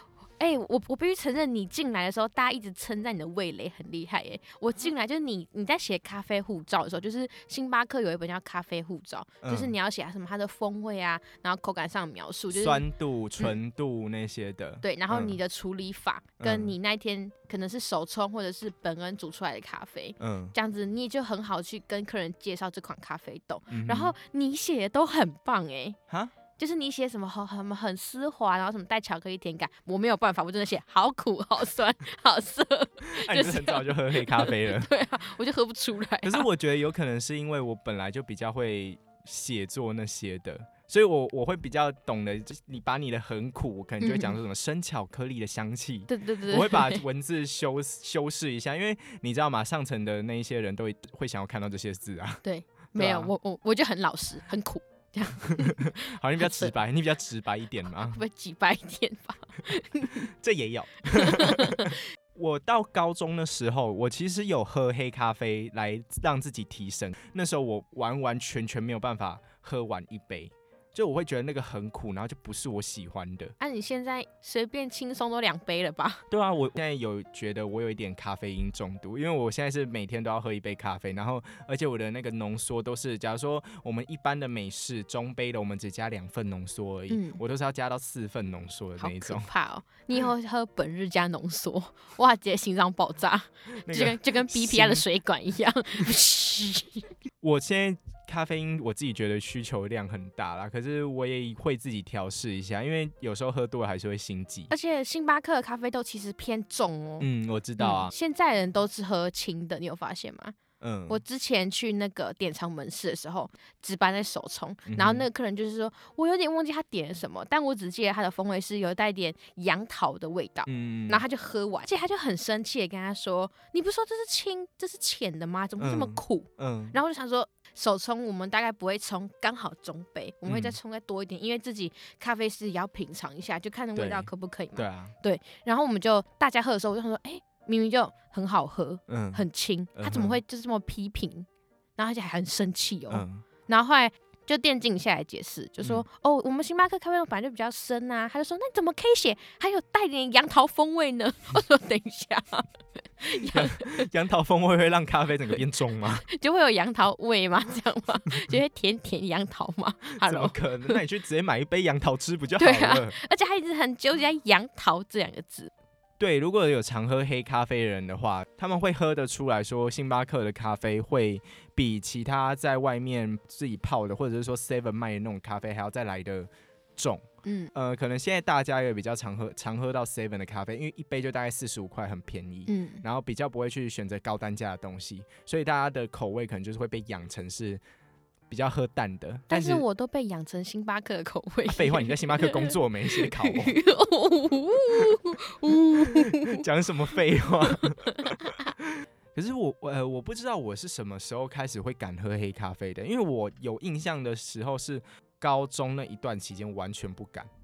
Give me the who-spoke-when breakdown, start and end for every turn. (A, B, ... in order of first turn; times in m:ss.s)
0:00.4-0:12.8 A
0:09.4-0:09.7 B
0:12.5-0:15.4 B
0:14.8-0:26.0 A
0:16.4-0:16.7 B
0:20.2-0:20.5 B
0:23.7-0:24.1 B
0:26.6-0:36.5 A
0:33.1-0:34.9 B
0:36.2-0:52.4 B
0:44.0-0:44.4 A
0:46.1-0:47.0 A
0:52.4-0:56.7 A
0:52.9-0:53.3 B
0:55.4-0:58.2 B
0:58.0-1:00.3 A
1:00.2-1:13.5 B
1:01.1-1:02.0 A
1:13.6-1:16.2 A
1:16.3-1:29.5 B
1:27.1-1:27.4 A
1:29.0-1:37.1 A
1:33.8-1:35.0 B
1:37.4-1:44.7 B
1:44.7-1:50.6 A
1:47.2-1:48.1 B
1:50.8-1:51.2 B
1:51.1-2:34.1 A
1:54.9-1:55.2 B
2:00.6-2:01.2 B
2:05.8-2:07.0 B
2:10.4-2:10.8 B
2:14.0-2:15.1 B
2:19.1-2:19.4 B
2:20.0-2:20.4 B
2:23.1-2:23.4 B
2:33.4-2:36.2 B
2:36.3-2:41.0 A
2:40.2-2:43.2 B
2:42.6-2:45.7 A
2:46.2-3:07.8 B
2:57.4-2:57.7 A
3:02.7-3:03.0 A
3:08.5-3:09.8 B
3:09.5-3:16.6 A
3:11.7-3:13.8 B
3:16.0-3:27.5 B
3:17.7-3:18.7 A